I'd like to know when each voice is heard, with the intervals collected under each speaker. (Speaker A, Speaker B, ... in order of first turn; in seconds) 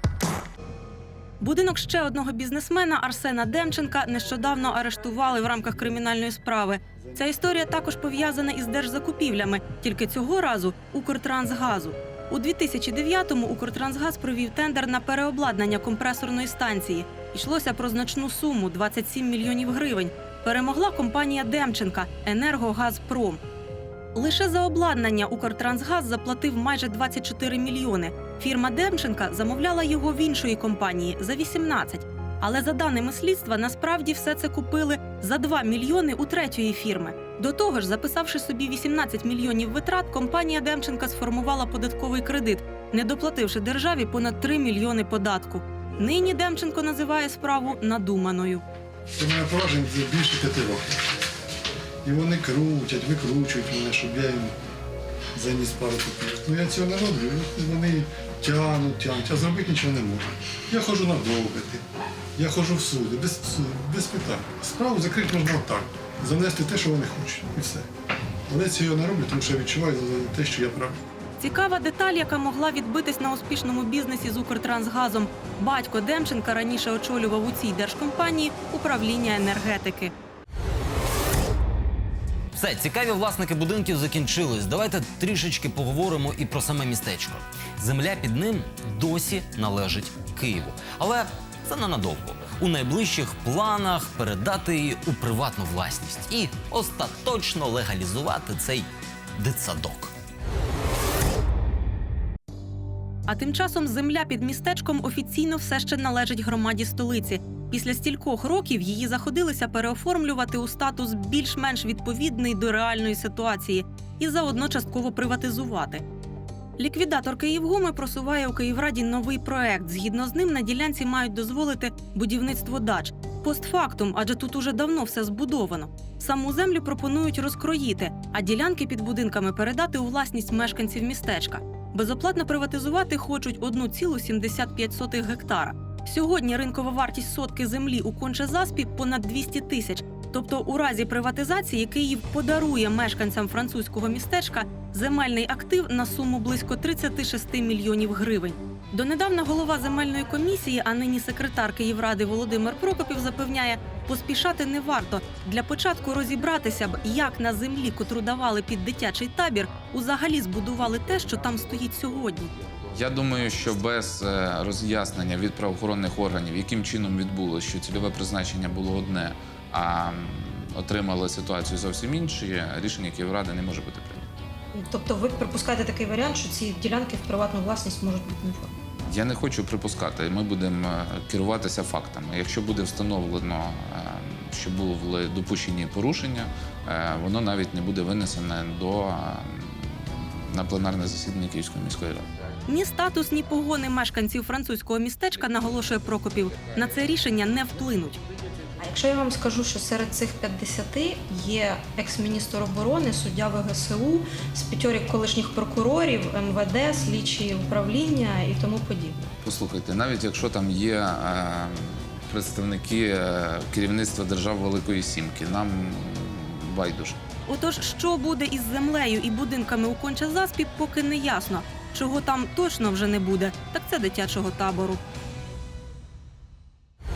Speaker A: 1.4-23.4, 24.1-48.6, 71.4-80.1, 103.3-116.0, 116.8-162.5, 192.7-198.2, 217.5-225.0
Speaker B: 49.1-51.1, 52.0-54.5, 55.4-61.8, 62.4-67.9, 68.5-71.0
Speaker C: 82.5-100.1
Speaker D: 162.9-174.3, 179.1-192.3, 209.4-217.2
Speaker E: 174.8-178.7, 198.8-209.2